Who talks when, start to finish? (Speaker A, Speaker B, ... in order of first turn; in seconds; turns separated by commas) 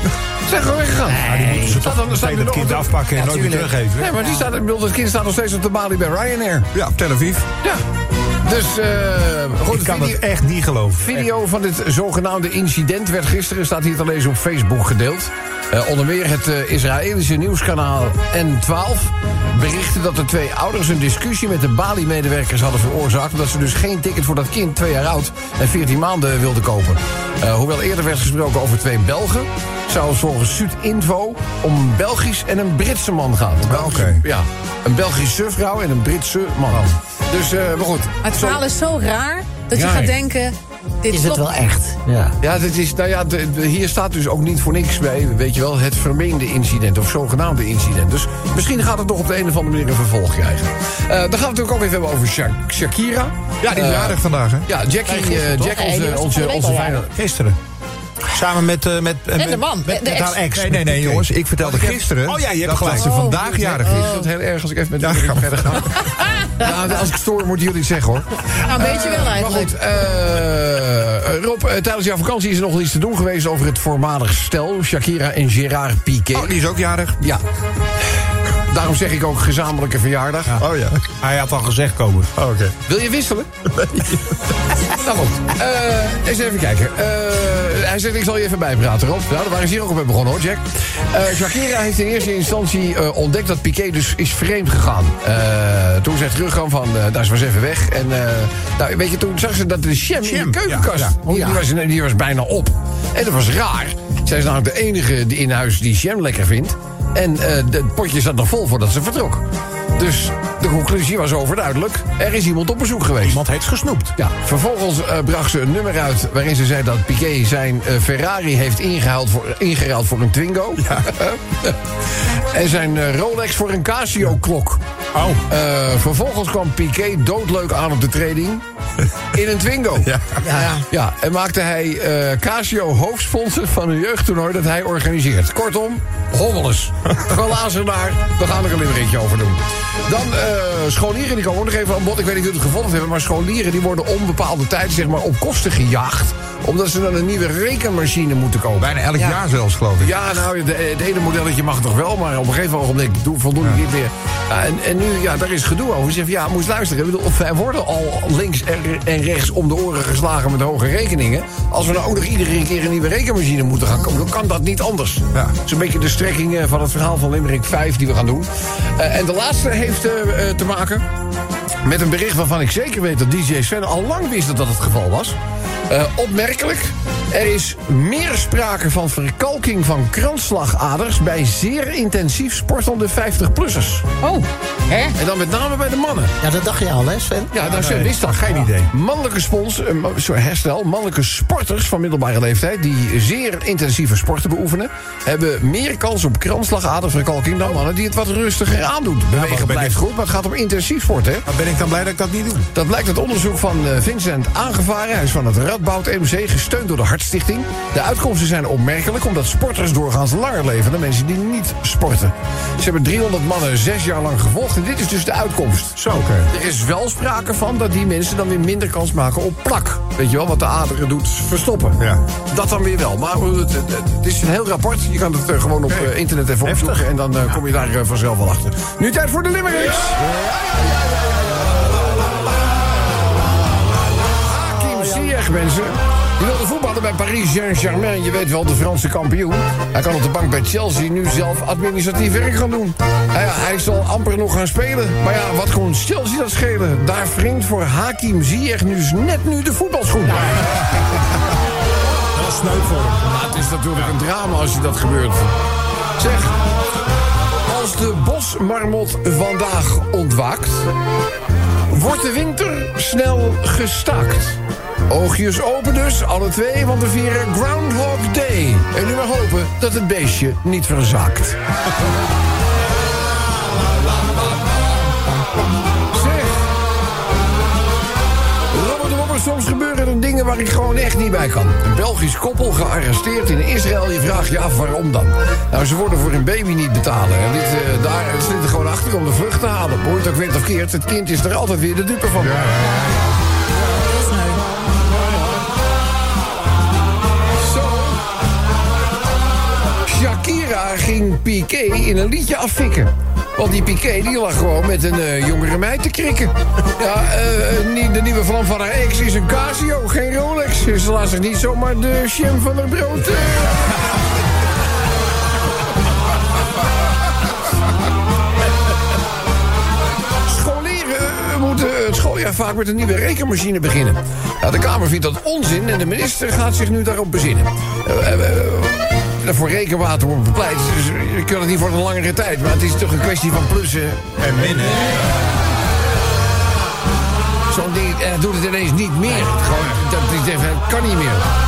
Speaker A: 0.4-3.2, Speaker B: 1.1-4.1, Speaker C: 3.1-4.4, Speaker A: 3.9-6.7, Speaker D: 6.7-7.5, Speaker A: 8.4-10.2, Speaker B: 9.7-11.2, Speaker A: 11.0-38.6, Speaker D: 33.6-34.2, Speaker C: 38.2-41.4, Speaker A: 39.7-40.1, Speaker E: 41.1-42.4, Speaker A: 42.4-57.1, Speaker D: 53.6-54.7, Speaker C: 55.7-57.0, Speaker B: 57.1-57.6, Speaker B: 58.3-63.2, Speaker C: 59.4-60.4, Speaker D: 60.5-64.1, Speaker C: 63.0-64.2, Speaker A: 63.4-76.6, Speaker D: 65.0-65.5, Speaker C: 66.0-66.7, Speaker C: 68.7-69.7, Speaker D: 76.3-77.2, Speaker A: 78.7-80.6, Speaker B: 80.5-82.4, Speaker D: 80.6-81.0, Speaker D: 82.4-82.7, Speaker A: 82.9-83.5, Speaker A: 84.9-113.4, Speaker B: 100.2-101.4, Speaker B: 113.2-114.1, Speaker A: 114.2-124.8, Speaker B: 125.1-125.4, Speaker A: 125.5-128.6, Speaker A: 129.3-130.1, Speaker D: 130.0-130.4, Speaker E: 130.4-130.8, Speaker A: 130.9-149.3, Speaker D: 148.8-150.2, Speaker A: 150.0-171.1, Speaker A: 171.8-175.4, Speaker A: 175.9-184.1, Speaker C: 184.2-185.1, Speaker A: 185.1-186.3, Speaker E: 186.4-187.6, Speaker A: 187.5-201.4, Speaker B: 187.6-188.9, Speaker B: 199.3-200.0, Speaker B: 201.5-202.7, Speaker A: 202.7-230.2, Speaker B: 216.0-216.5, Speaker B: 226.6-227.1, Speaker A: 234.4-250.6, Speaker E: 234.8-235.3, Speaker B: 250.3-250.9, Speaker B: 252.3-253.2, Speaker A: 253.2-255.6, Speaker A: 256.2-256.6, Speaker A: 257.6-260.9, Speaker A: 261.9-271.6, Speaker A: 276.1-276.7, Speaker A: 278.7-292.7, Speaker D: 292.4-293.4, Speaker C: 294.0-294.6, Speaker A: 295.1-295.6, Speaker A: 297.5-298.2, Speaker A: 300.0-314.0, Speaker A: 320.4-334.4, Speaker B: 334.4-335.2, Speaker A: 337.7-341.5